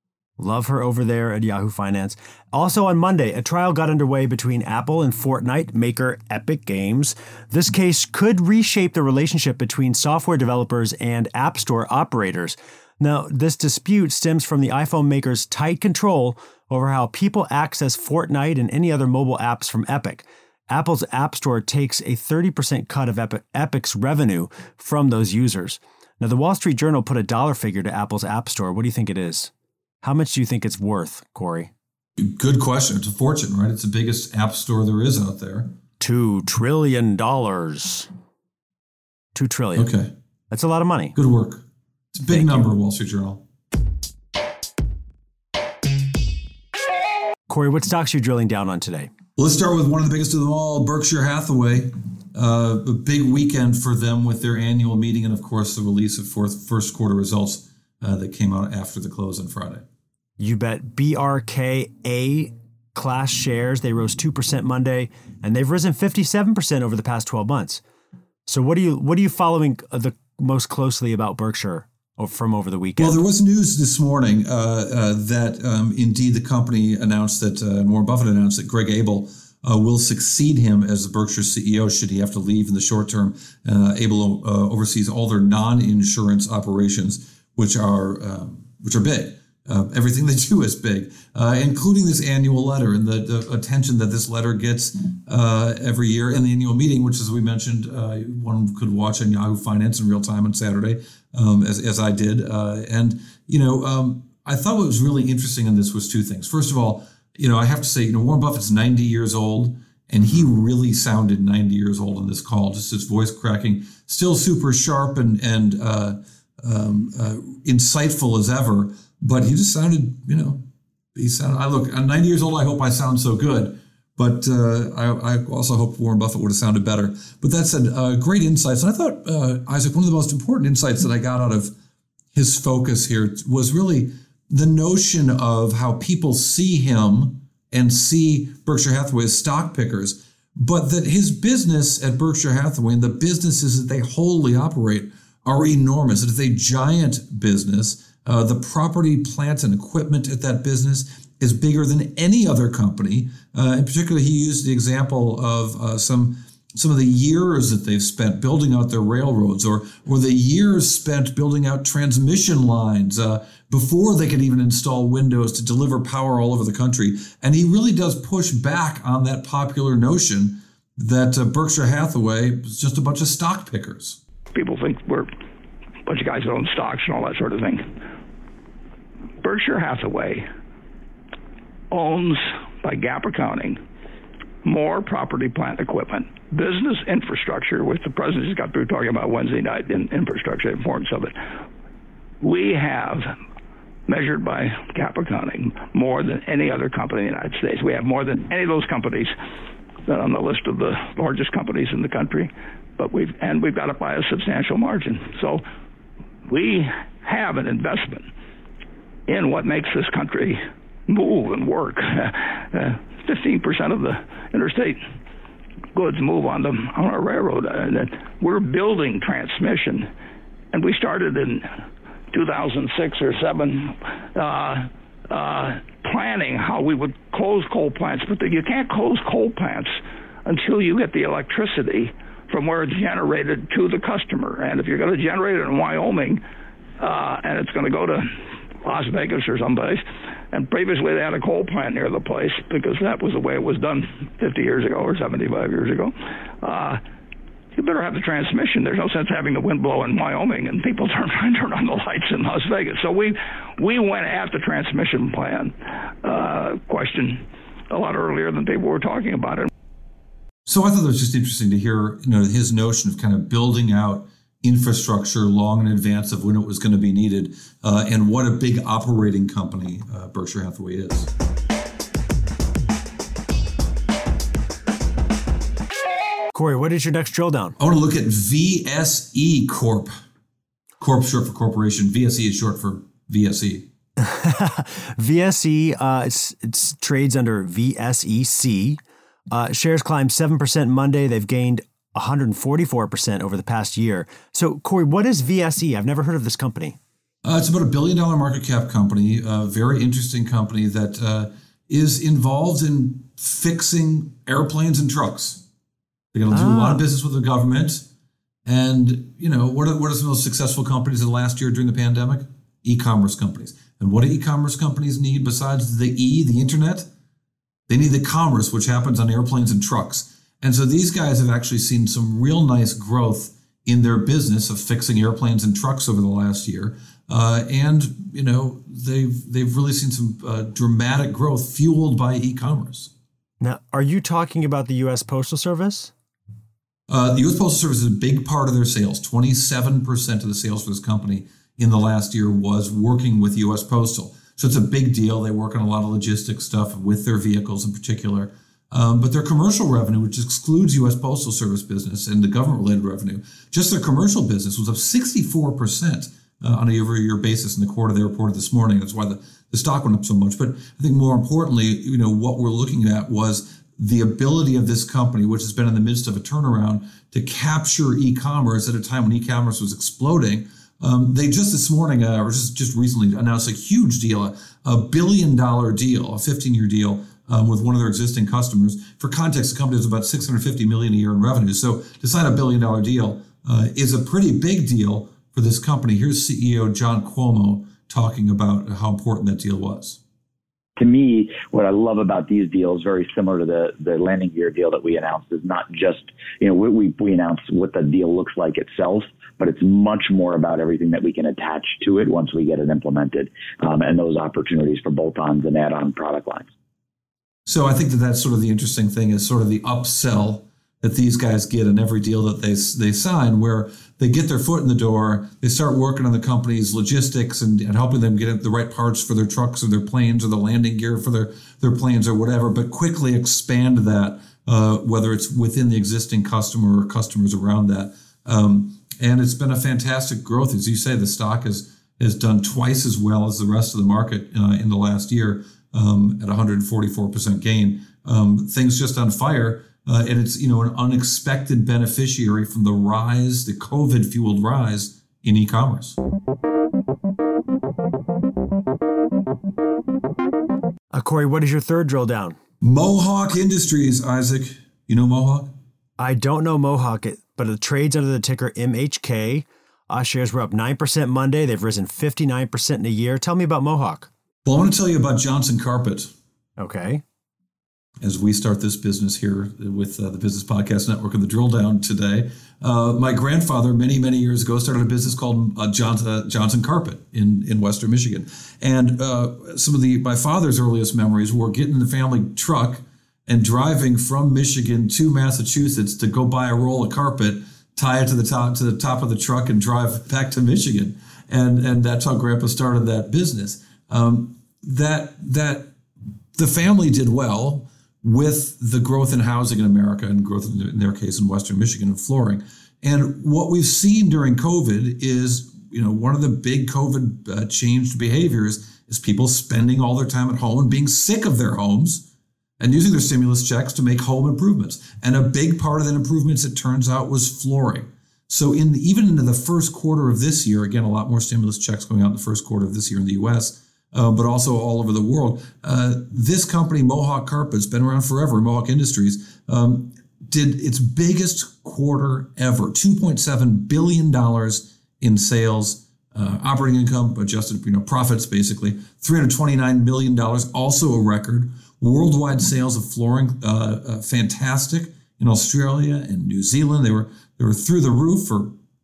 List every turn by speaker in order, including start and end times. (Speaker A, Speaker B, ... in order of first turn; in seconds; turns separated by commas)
Speaker A: 0.4-29.5, Speaker A: 30.0-31.7, Speaker B: 32.2-35.7, Speaker A: 36.0-38.1, Speaker A: 39.3-39.9, Speaker B: 39.8-40.1, Speaker A: 40.5-41.1, Speaker B: 41.1-43.4, Speaker A: 42.3-42.6, Speaker A: 47.5-49.1, Speaker B: 49.4-59.8, Speaker A: 60.4-67.8, Speaker A: 68.5-73.2, Speaker B: 73.0-120.6, Speaker B: 121.1-131.7, Speaker B: 132.3-174.2, Speaker C: 174.5-175.3, Speaker C: 176.1-177.9, Speaker C: 179.4-180.4, Speaker C: 181.9-183.8, Speaker C: 184.6-191.3, Speaker C: 192.4-193.3, Speaker C: 194.1-199.3, Speaker C: 200.1-205.6, Speaker C: 206.5-208.3, Speaker C: 209.3-215.0, Speaker C: 215.9-220.1, Speaker C: 220.7-221.7, Speaker C: 222.3-236.4, Speaker C: 237.0-238.3, Speaker C: 238.8-247.0, Speaker C: 247.8-259.7, Speaker B: 260.6-271.3, Speaker A: 276.5-277.8, Speaker B: 277.8-280.1, Speaker B: 281.0-283.9, Speaker A: 284.2-289.0, Speaker A: 289.5-297.0, Speaker B: 297.4-305.6, Speaker B: 306.3-308.0, Speaker A: 306.5-307.0, Speaker B: 308.6-317.1, Speaker B: 317.9-333.1, Speaker A: 333.6-336.1, Speaker B: 337.1-390.2, Speaker D: 391.0-406.7, Speaker B: 407.6-446.2, Speaker A: 451.1-452.6, Speaker B: 452.8-455.7, Speaker A: 456.2-464.3, Speaker B: 464.6-466.3, Speaker A: 466.8-467.2, Speaker B: 468.2-495.9, Speaker B: 496.5-512.2, Speaker B: 512.8-548.7